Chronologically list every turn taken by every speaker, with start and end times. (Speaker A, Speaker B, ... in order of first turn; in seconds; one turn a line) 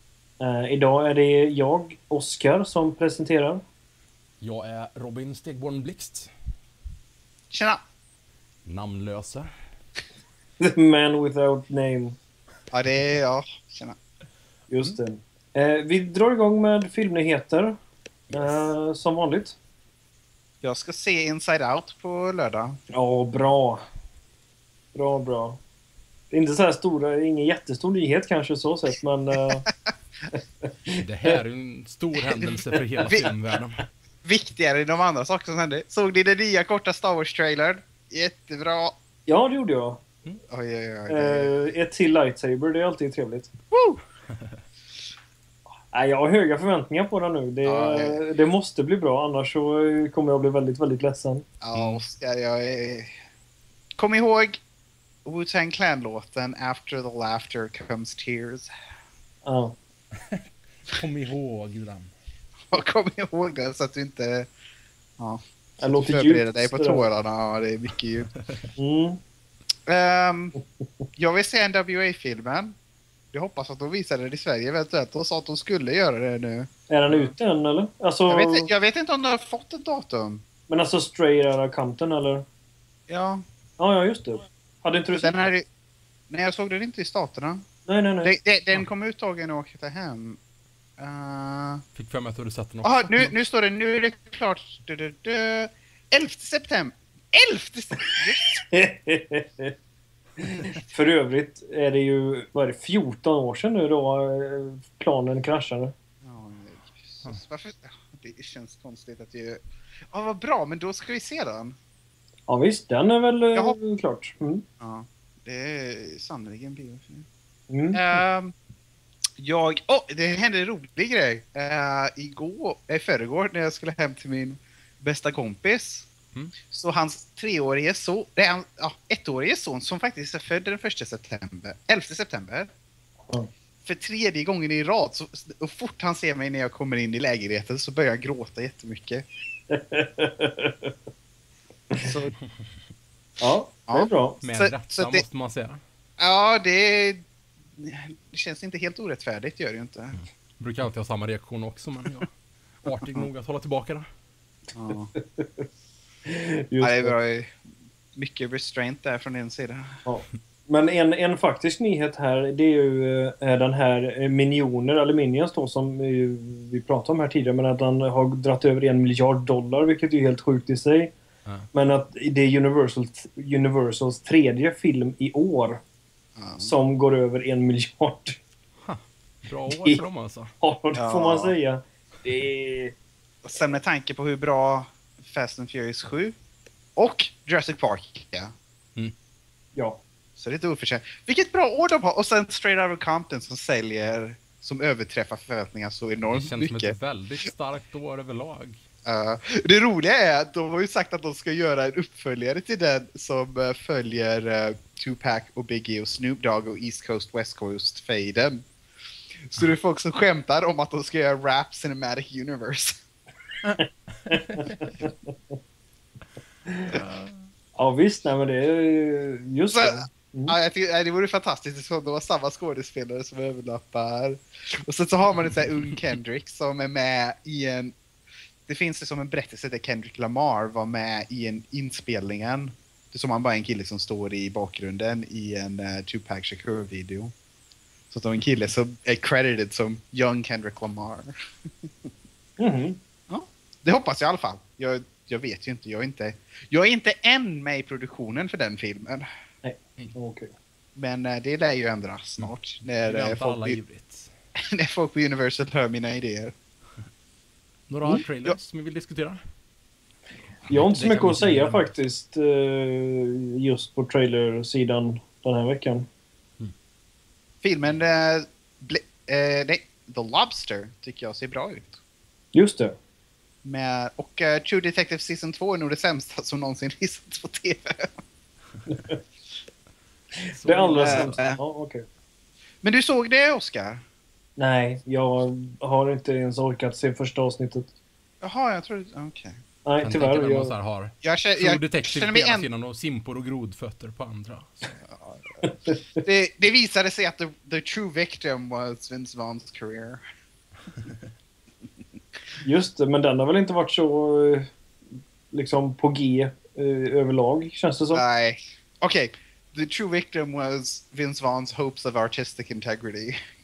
Speaker A: 0.4-3.6
Speaker B: 4.4-6.3
Speaker C: 7.5-7.8
Speaker B: 8.7-9.5
Speaker A: 10.6-12.2
Speaker C: 12.7-14.0
Speaker A: 14.7-17.8
Speaker A: 18.3-19.6
Speaker C: 20.6-22.8
Speaker A: 22.9-23.9
Speaker A: 24.9-25.6
Speaker A: 26.3-29.6
Speaker C: 29.7-29.9
Speaker A: 30.4-31.4
Speaker B: 31.0-33.9
Speaker C: 34.2-39.0
Speaker A: 39.3-40.0
Speaker C: 40.5-41.5
Speaker A: 41.1-43.5
Speaker C: 43.7-44.0
Speaker A: 45.9-51.5
Speaker C: 47.6-48.2
Speaker C: 51.6-53.1
Speaker B: 51.7-52.0
Speaker C: 54.0-54.6
Speaker C: 55.2-58.7
Speaker A: 59.5-59.8
Speaker B: 60.2-62.1
Speaker C: 62.7-64.5
Speaker C: 65.2-68.3
Speaker A: 65.8-67.1
Speaker B: 68.4-68.6
Speaker A: 68.8-69.2
Speaker C: 69.9-70.5
Speaker C: 71.2-72.7
Speaker C: 73.3-76.7
Speaker A: 76.9-78.7
Speaker B: 77.1-77.3
Speaker C: 78.3-80.4
Speaker A: 80.7-82.5
Speaker C: 83.1-83.4
Speaker A: 83.8-85.4
Speaker C: 85.1-85.7
Speaker C: 86.3-87.6
Speaker A: 87.9-88.3
Speaker C: 88.2-90.4
Speaker C: 91.0-91.8
Speaker B: 92.0-93.3
Speaker C: 92.8-98.6
Speaker A: 98.7-99.7
Speaker A: 100.4-105.9
Speaker C: 106.2-111.8
Speaker A: 112.5-114.6
Speaker C: 114.8-117.3
Speaker A: 117.7-118.0
Speaker C: 117.9-118.5
Speaker C: 119.4-126.1
Speaker C: 126.7-132.7
Speaker C: 133.8-139.2
Speaker A: 139.7-140.9
Speaker C: 142.0-142.3
Speaker A: 143.4-144.4
Speaker C: 143.9-145.2
Speaker B: 144.4-145.8
Speaker C: 146.2-147.2
Speaker C: 147.8-150.2
Speaker B: 150.2-154.1
Speaker C: 154.7-155.1
Speaker A: 155.2-155.7
Speaker A: 156.2-157.2
Speaker C: 156.8-157.5
Speaker C: 158.2-160.0
Speaker A: 160.1-171.1
Speaker A: 171.7-175.8
Speaker C: 176.4-176.7
Speaker A: 176.6-178.4
Speaker B: 178.8-180.5
Speaker A: 179.7-180.0
Speaker A: 180.6-182.9
Speaker C: 180.9-181.5
Speaker C: 183.4-186.3
Speaker C: 187.0-188.5
Speaker A: 189.8-190.0
Speaker C: 190.4-196.9
Speaker B: 196.3-198.8
Speaker C: 199.1-208.7
Speaker C: 209.5-213.0
Speaker B: 213.6-214.6
Speaker A: 213.8-215.3
Speaker A: 216.7-217.0
Speaker B: 216.9-217.4
Speaker A: 217.8-220.6
Speaker C: 219.7-227.9
Speaker C: 228.7-237.3
Speaker C: 238.1-241.3
Speaker C: 241.8-242.1
Speaker A: 242.6-243.0
Speaker C: 243.3-249.3
Speaker A: 249.6-250.5
Speaker C: 250.9-253.8
Speaker B: 253.1-254.3
Speaker C: 254.6-256.5
Speaker B: 257.9-259.4
Speaker B: 260.7-261.9
Speaker A: 260.7-266.1
Speaker C: 267.6-272.0
Speaker A: 272.5-272.9
Speaker C: 273.6-278.1
Speaker A: 278.9-279.2
Speaker B: 280.5-281.4
Speaker A: 280.6-282.0
Speaker C: 281.0-281.6
Speaker C: 282.8-284.0
Speaker A: 284.6-287.9
Speaker C: 288.4-289.6
Speaker A: 289.9-290.7
Speaker B: 290.0-294.9
Speaker C: 291.2-292.7
Speaker C: 295.1-295.4
Speaker A: 295.6-296.0
Speaker C: 296.2-300.2
Speaker A: 302.6-304.7
Speaker A: 305.5-308.2
Speaker C: 308.1-313.4